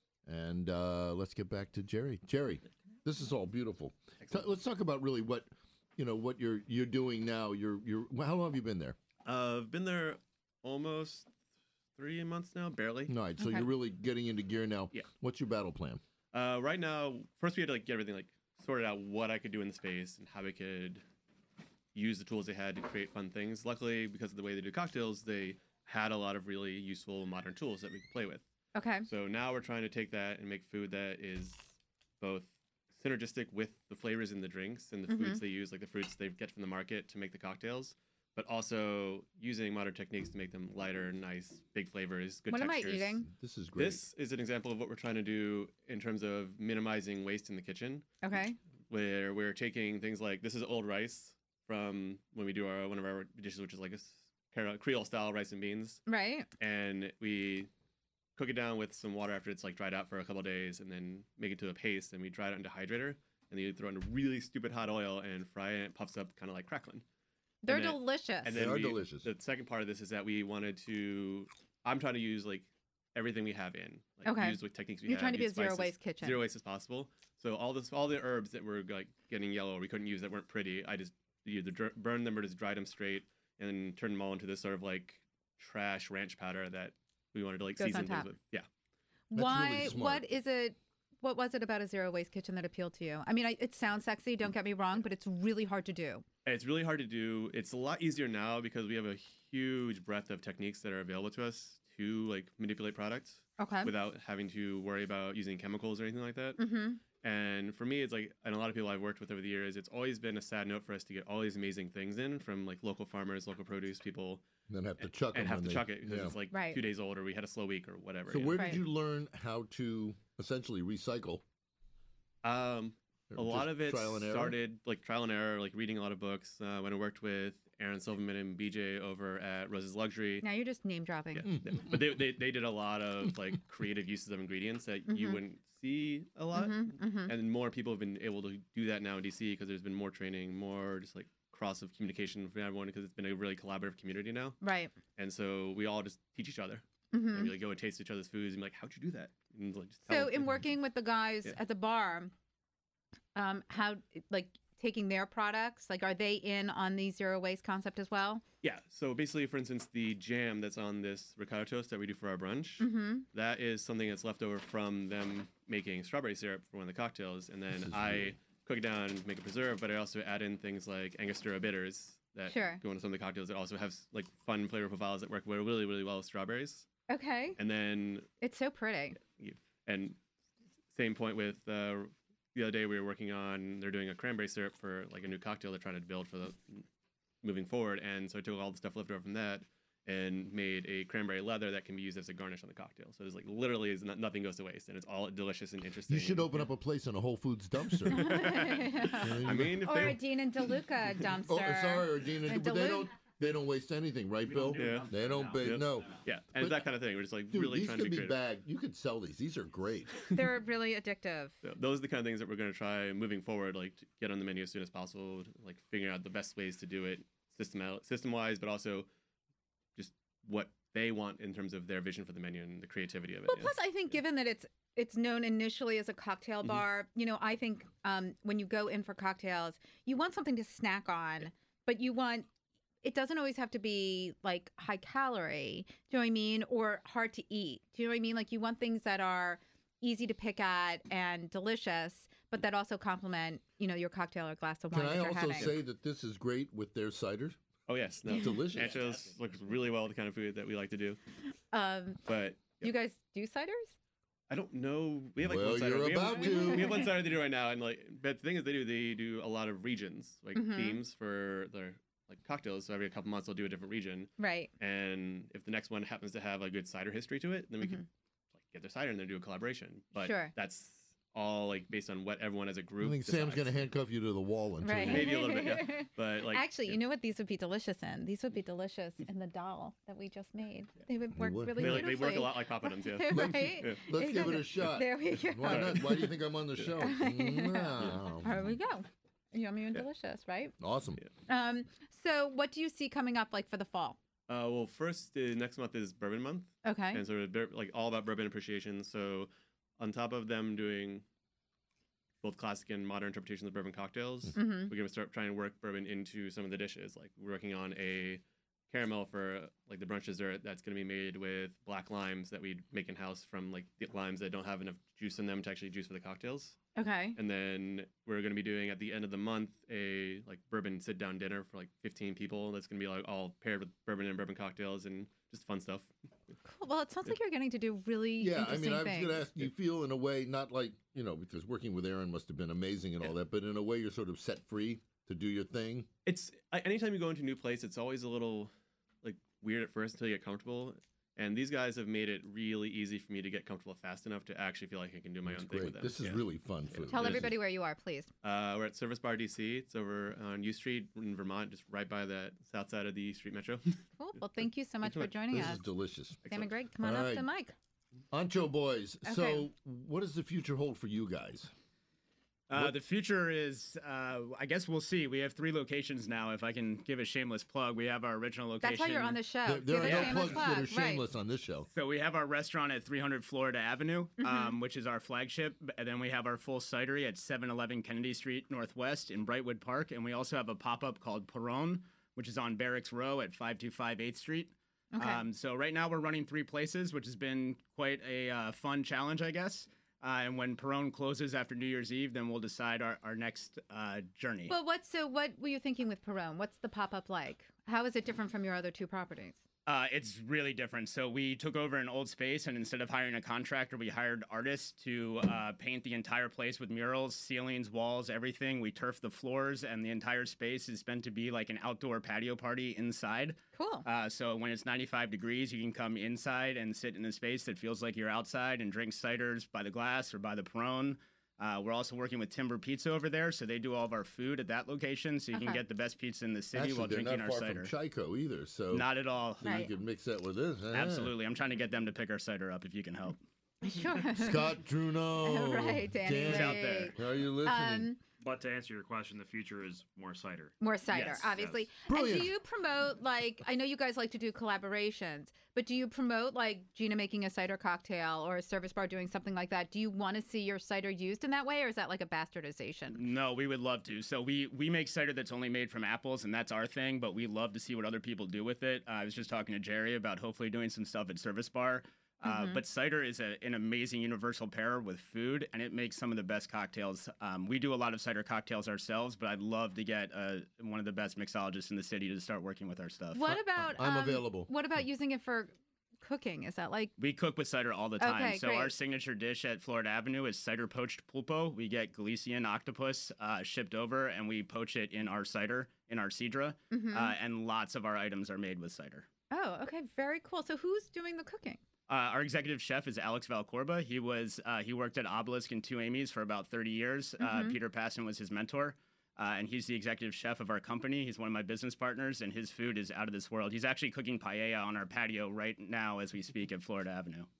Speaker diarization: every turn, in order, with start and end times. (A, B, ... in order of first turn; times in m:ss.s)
0:00.2-0:09.0 A
0:09.2-0:11.3 B
0:12.0-0:13.1 B
0:13.1-0:16.0 A
0:13.4-0:13.6 C
0:16.3-0:21.0 B
0:21.9-0:28.4 B
0:28.7-0:29.0 C
0:29.0-0:43.2 B
0:35.1-0:35.4 C
0:42.5-0:43.3 C
0:43.2-0:44.0 A
0:43.8-0:48.1 B
0:48.2-0:48.6 C
0:48.9-0:56.0 B
0:56.1-0:56.5 C
0:56.6-0:57.7 B
0:58.4-1:07.0 B
1:07.6-1:08.5 C
1:07.6-1:28.7 B
1:08.5-1:09.3 A
1:14.2-1:16.4 C
1:27.8-1:28.3 C
1:29.3-1:36.2 C
1:29.3-1:30.2 A
1:36.4-1:46.6 B
1:43.6-1:43.9 C
1:46.6-1:47.0 C
1:47.1-1:54.4 B
1:54.7-1:56.4 A
1:55.0-1:58.7 B
1:56.5-1:56.8 C
1:58.3-2:01.4 A
1:58.5-1:58.8 C
2:02.4-2:10.4 B
2:03.3-2:04.6 A
2:10.4-2:11.5 C
2:11.3-2:24.6 B
2:15.1-2:15.4 C
2:16.5-2:17.3 C
2:24.6-2:24.9 C
2:25.2-2:30.6 B
2:27.1-2:27.5 C
2:30.1-2:32.3 C
2:33.3-2:38.4 C
2:38.6-2:56.9 B
2:42.8-2:43.2 C
2:47.7-2:48.4 A
2:52.5-2:52.8 C
2:57.1-2:57.6 C
2:57.6-2:58.3 B
2:58.4-2:59.2 C
2:59.2-3:00.2 B
3:00.9-3:06.8 B
3:07.4-3:16.7 B
3:16.1-3:20.1 A
3:17.9-3:20.2 B
3:18.1-3:23.1 C
3:21.4-3:30.2 A
3:24.5-3:28.4 B
3:30.3-3:31.6 C
3:31.6-3:39.1 B
3:40.0-3:43.8 B
3:43.5-3:52.5 C
3:53.0-4:05.7 C
4:04.9-4:07.6 A
4:07.9-4:11.2 B
4:08.3-4:09.0 A
4:11.7-4:13.9 C
4:12.2-4:12.9 B
4:14.5-4:28.0 B
4:15.4-4:17.0 A
4:16.4-4:17.0 C
4:20.5-4:21.0 C
4:24.4-4:24.7 C
4:28.6-4:33.9 B
4:30.1-4:30.5 C
4:33.0-4:35.5 A
4:34.8-4:46.3 C
4:34.9-4:37.0 B
4:41.4-4:42.2 A
4:41.8-4:44.0 B
4:43.3-4:48.6 A
4:45.6-4:47.0 B
4:47.0-4:50.7 C
4:50.8-4:51.2 A
4:51.5-4:54.2 C
4:54.5-5:01.2 B
4:56.8-4:57.2 C
5:02.4-5:16.8 B
5:04.5-5:04.9 C
5:16.9-5:17.4 C
5:17.4-5:26.1 B
5:26.6-5:29.5 C
5:28.4-5:36.1 A
5:36.2-5:38.7 B
5:39.2-5:47.5 B
5:45.4-5:47.6 A
5:47.1-5:48.3 C
5:48.4-5:54.0 B
5:54.2-5:55.9 C
5:55.0-5:55.6 B
5:55.5-5:56.4 A
5:56.5-5:57.7 C
5:57.0-5:57.5 A
5:58.3-6:01.7 A
5:59.2-5:59.6 C
6:02.7-6:09.4 D
6:08.8-6:11.2 C
6:09.6-6:11.9 A
6:11.9-6:34.7 D
6:14.4-6:14.7 C
6:25.1-6:25.4 C
6:34.7-6:39.6 C
6:39.8-7:07.9 D
6:53.7-6:54.0 C
7:05.5-7:05.8 C
7:06.7-7:11.3 A
7:08.9-7:09.8 D
7:09.6-7:09.9 C
7:10.9-7:13.4 D
7:13.8-7:14.8 C
7:14.4-7:18.1 A
7:15.4-7:18.2 C
7:16.4-7:17.2 D
7:18.4-7:21.8 E
7:20.8-7:33.2 C
7:21.1-7:21.4 D
7:22.0-7:22.5 A
7:33.1-7:53.6 D
7:42.4-7:42.8 C
7:53.3-7:57.1 C
7:53.8-7:54.7 A
7:57.2-8:09.3 D
7:58.2-7:58.9 C
8:06.9-8:07.3 C
8:09.5-8:11.8 C
8:12.1-8:27.5 D
8:17.4-8:17.8 C